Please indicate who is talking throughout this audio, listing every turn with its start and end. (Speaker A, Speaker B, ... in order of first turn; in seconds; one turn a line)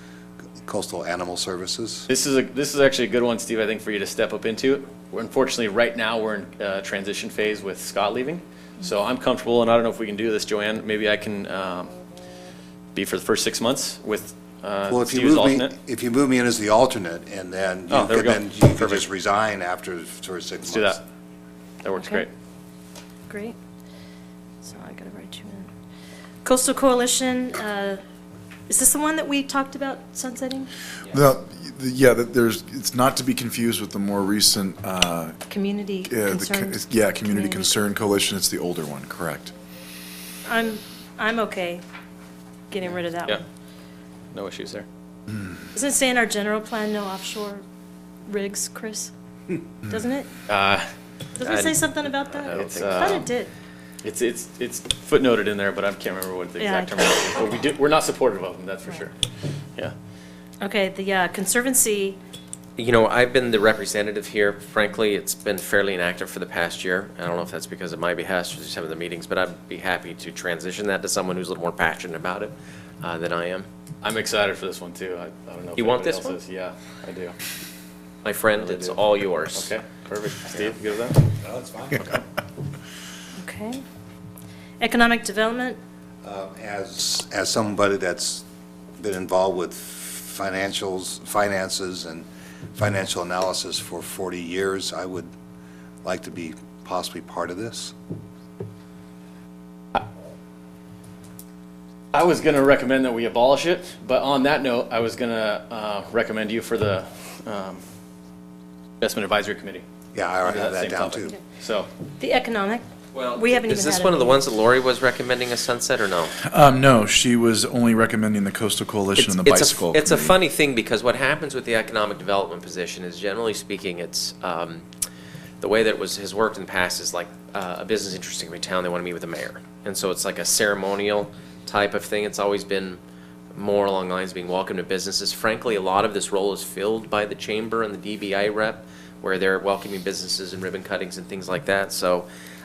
Speaker A: 0.6-2.1
Speaker B: 2.1-11.9
Speaker B: 12.9-15.7
Speaker A: 14.8-21.0
Speaker B: 17.9-19.0
Speaker B: 20.7-21.0
Speaker B: 21.8-22.3
Speaker C: 21.9-22.2
Speaker C: 23.3-23.6
Speaker C: 24.6-25.7
Speaker C: 26.4-28.0
Speaker C: 28.7-30.7
Speaker D: 31.1-35.4
Speaker C: 35.5-37.8
Speaker D: 36.1-39.5
Speaker C: 40.5-41.8
Speaker C: 42.7-43.4
Speaker B: 43.1-43.4
Speaker B: 44.3-44.9
Speaker C: 45.7-47.6
Speaker C: 48.3-49.1
Speaker C: 49.9-50.3
Speaker B: 50.5-50.9
Speaker C: 51.4-53.5
Speaker E: 51.4-53.3
Speaker B: 52.5-53.3
Speaker B: 54.0-59.2
Speaker C: 56.6-57.5
Speaker C: 60.6-62.2
Speaker E: 62.8-73.7
Speaker B: 74.0-77.3
Speaker E: 75.8-76.3
Speaker E: 78.2-79.7
Speaker B: 78.5-79.0
Speaker B: 79.5-81.3
Speaker A: 81.4-82.2
Speaker C: 83.4-83.8
Speaker C: 84.8-85.8
Speaker A: 86.2-88.4
Speaker A: 89.0-95.3
Speaker A: 96.0-97.9
Speaker B: 102.1-107.8
Speaker B: 109.0-109.8
Speaker A: 110.1-111.3
Speaker B: 110.4-111.9
Speaker C: 112.2-114.4
Speaker E: 113.1-116.3
Speaker D: 116.4-120.3
Speaker E: 119.2-124.8
Speaker E: 125.6-133.0
Speaker E: 133.5-142.2